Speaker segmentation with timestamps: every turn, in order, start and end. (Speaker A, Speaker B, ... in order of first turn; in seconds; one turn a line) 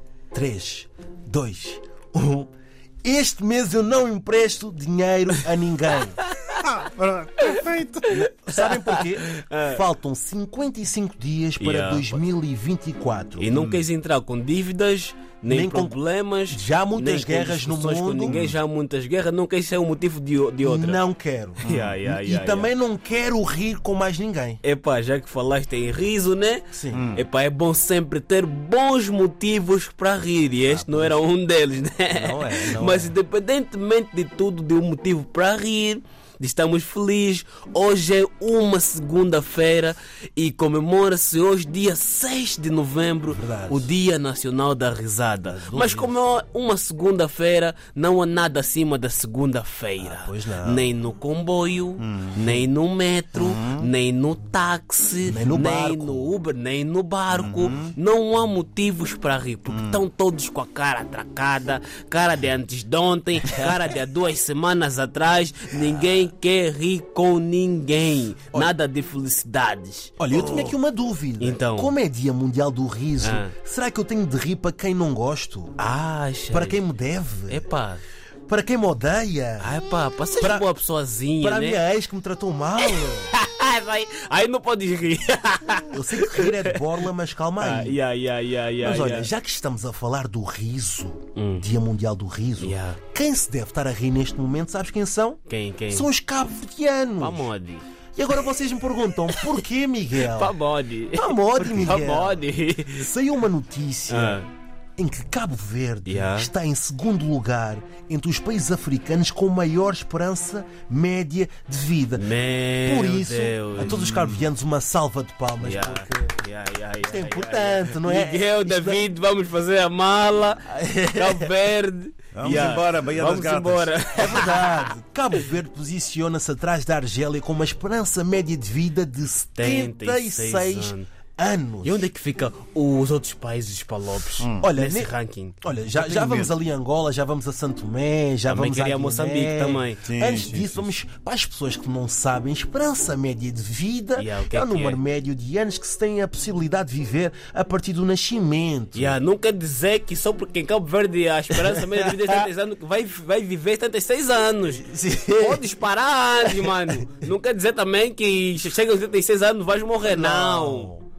Speaker A: 0.3-2.5
Speaker A: 3.0-6.2
Speaker B: 6.6-8.8
Speaker A: 8.1-13.6
Speaker C: 8.2-9.8
Speaker C: 11.6-12.2
Speaker C: 13.4-21.0
Speaker B: 13.5-13.8
Speaker A: 15.5-16.0
Speaker A: 16.5-18.4
Speaker B: 18.3-18.6
Speaker A: 20.6-24.6
Speaker C: 21.6-22.7
Speaker C: 24.6-70.8
Speaker A: 26.7-27.1
Speaker B: 26.9-27.2
Speaker A: 30.6-31.2
Speaker A: 32.1-33.1
Speaker A: 43.3-43.9
Speaker A: 45.4-46.2
Speaker A: 50.0-50.9
Speaker B: 52.0-52.5
Speaker B: 53.4-53.9
Speaker A: 55.2-56.4
Speaker B: 57.3-57.9
Speaker B: 59.7-60.0
Speaker A: 70.2-75.8
Speaker C: 71.4-71.9
Speaker C: 73.2-73.5
Speaker C: 75.8-76.8
Speaker A: 76.5-77.6
Speaker C: 77.5-78.0
Speaker A: 78.5-79.8
Speaker C: 79.6-81.8
Speaker A: 80.4-80.7
Speaker A: 81.4-83.3
Speaker C: 82.8-86.8
Speaker A: 85.7-88.0
Speaker C: 87.6-89.3
Speaker A: 88.8-95.4
Speaker C: 91.3-91.7
Speaker C: 92.6-93.0
Speaker C: 95.5-96.1
Speaker A: 95.9-97.5
Speaker C: 97.2-97.8
Speaker A: 98.2-100.5
Speaker C: 99.3-99.6
Speaker C: 100.2-103.1
Speaker A: 101.1-104.4
Speaker C: 104.1-104.5
Speaker A: 105.0-112.2
Speaker C: 106.0-106.5
Speaker C: 112.2-114.0
Speaker A: 112.8-116.4
Speaker B: 113.8-114.5
Speaker C: 115.6-125.4
Speaker A: 117.0-119.0
Speaker A: 120.7-121.5
Speaker B: 122.3-123.9
Speaker A: 124.2-132.1
Speaker C: 129.6-131.1
Speaker C: 131.8-135.5
Speaker B: 134.4-134.7
Speaker A: 134.6-149.2
Speaker B: 135.9-136.5
Speaker C: 138.4-140.0
Speaker B: 140.0-140.9
Speaker C: 144.2-145.0
Speaker C: 148.9-160.9
Speaker A: 151.5-152.5
Speaker A: 154.8-155.7
Speaker A: 156.4-157.2
Speaker A: 160.0-161.0